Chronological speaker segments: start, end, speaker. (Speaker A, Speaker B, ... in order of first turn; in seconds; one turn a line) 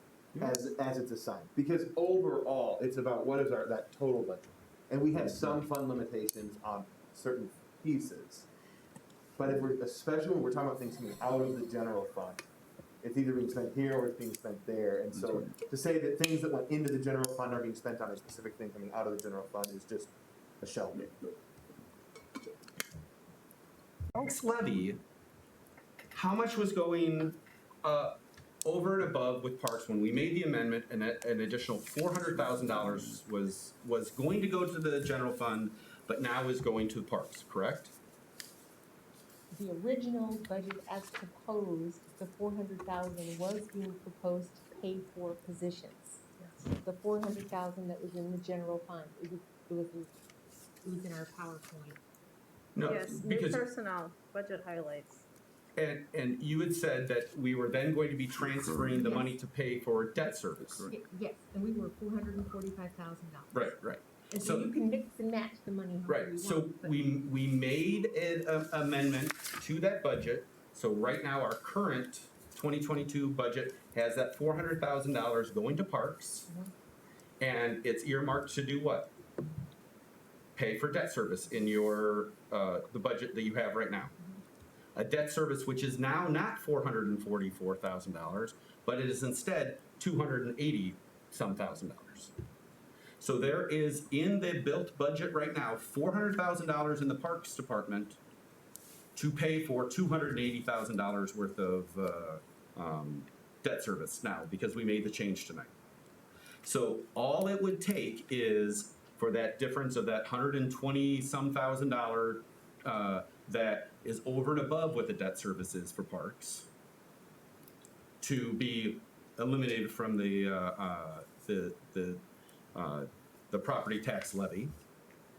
Speaker A: 0.4-8.5
Speaker B: 5.2-5.5
Speaker A: 9.3-12.4
Speaker A: 13.0-21.1
Speaker B: 24.1-25.0
Speaker B: 26.1-37.9
Speaker C: 39.5-50.1
Speaker C: 50.8-52.0
Speaker B: 52.7-53.6
Speaker D: 52.8-55.2
Speaker B: 55.8-60.9
Speaker C: 58.9-59.3
Speaker C: 60.9-63.8
Speaker B: 63.5-64.7
Speaker C: 64.3-67.1
Speaker B: 66.1-76.5
Speaker B: 77.4-79.1
Speaker B: 80.5-84.1
Speaker B: 84.9-92.3
Speaker B: 93.2-98.2
Speaker B: 99.2-105.7
Speaker B: 106.6-116.7
Speaker B: 118.2-124.7